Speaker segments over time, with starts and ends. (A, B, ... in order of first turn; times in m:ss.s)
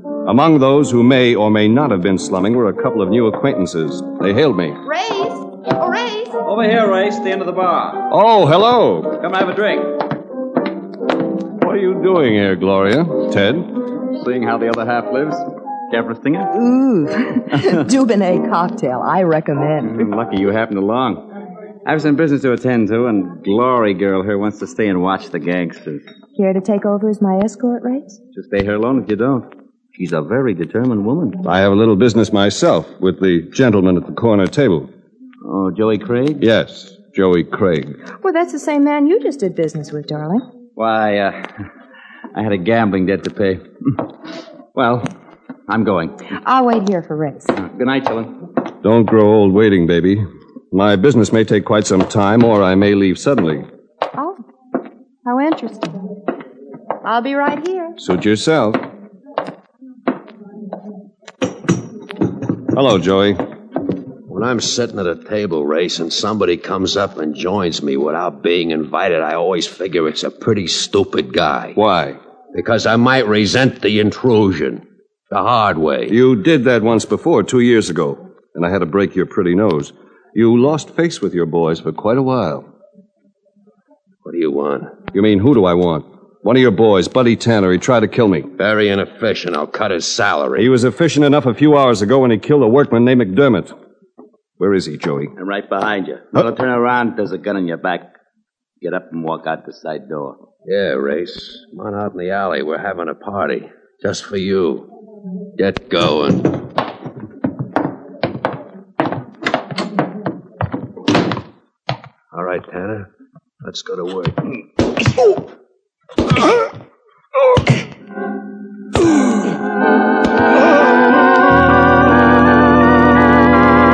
0:00.2-0:04.8 A
0:04.9-0:06.3 B
0:06.4-0:08.0 C
0:08.1-0:09.2 A
0:09.2-0:09.9 C
0:11.6-0:13.8 A
0:14.1-0:16.5 C
0:16.5-0:20.1 B
0:19.8-0:21.2 C
0:21.8-0:26.0 C
0:26.3-0:28.2 B
0:28.3-0:31.4 C
0:31.4-0:34.9 A
0:35.4-0:36.4 D
0:36.4-0:37.9 A
0:38.2-0:40.4 B
0:40.8-0:41.5 C
0:42.3-0:43.5 C
0:44.8-0:45.0 C
0:45.7-0:46.2 C
0:46.4-0:47.5 B
0:47.5-0:48.3 C
0:48.8-0:53.6 A
0:55.2-0:56.0 B
0:57.0-0:58.0 B
0:58.0-0:58.8 A
1:02.7-1:03.4 A
1:04.3-1:11.7 E
1:11.7-1:12.2 A
1:12.5-1:16.1 E
1:16.1-1:22.7 A
1:24.2-1:25.0 E
1:25.1-1:28.5 A
1:28.5-1:30.7 E
1:30.5-1:33.7 A
1:34.6-1:35.3 A
1:35.4-1:38.1 D
1:38.8-1:40.4 D
1:40.6-1:44.9 E
1:45.6-1:46.7 E
1:52.3-1:53.1 E
1:53.6-1:54.4 E